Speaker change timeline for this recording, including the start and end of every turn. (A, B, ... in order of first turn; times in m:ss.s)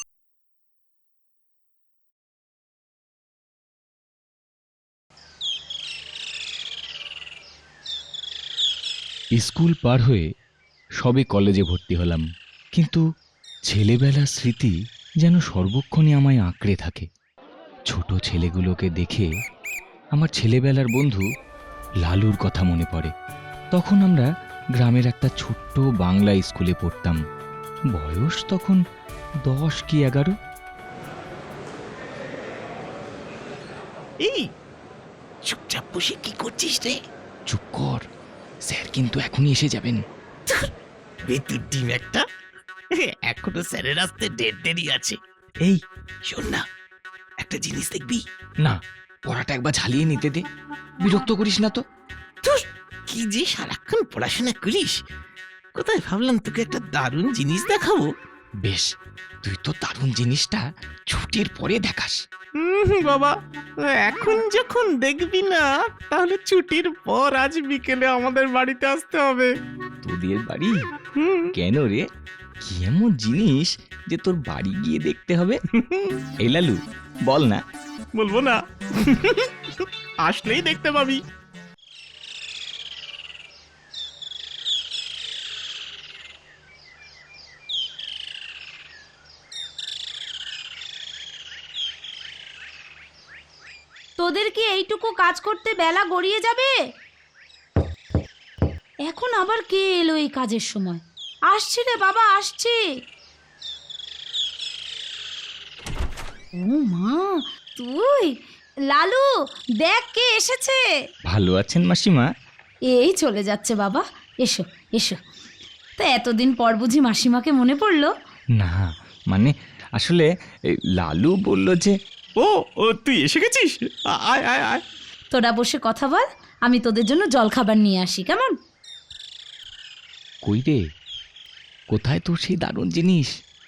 0:09.4-0:10.3 A
0:11.0-0:13.0 A
0:13.7-0:17.1 A
0:17.9-0:19.3 A
0:20.2-0:21.2 A
0:22.0-0:23.1 A
0:23.7-0:27.2 A
0:28.0-0:28.8 A
0:29.5-0:30.3 A
0:35.5-0:37.0 B
0:37.5-0:38.0 A
0:38.7-0:40.0 A
0:41.3-0:42.2 B
0:43.3-0:46.6 B
0:47.4-0:48.2 B
0:48.6-0:50.4 A
0:51.0-0:51.8 A
0:52.4-0:55.0 B
0:55.8-0:58.1 B
0:59.4-1:02.2 A
1:02.6-1:09.5 B
1:10.0-1:10.8 A
1:11.2-1:11.5 B
1:11.6-1:12.1 A
1:12.6-1:15.6 A
1:16.4-1:17.6 A
1:18.2-1:21.2 B
1:34.2-1:36.7 C
1:39.1-1:42.8 C
1:46.6-1:48.3 C
1:48.9-1:49.3 C
1:49.8-1:50.8 C
1:51.3-1:52.3 A
1:52.9-1:55.2 C
1:56.0-1:58.1 C
1:58.6-2:00.3 A
2:01.0-2:01.9 A
2:02.4-2:04.8 B
2:05.3-2:08.5 C
2:10.4-2:10.8 A
2:11.9-2:13.3 A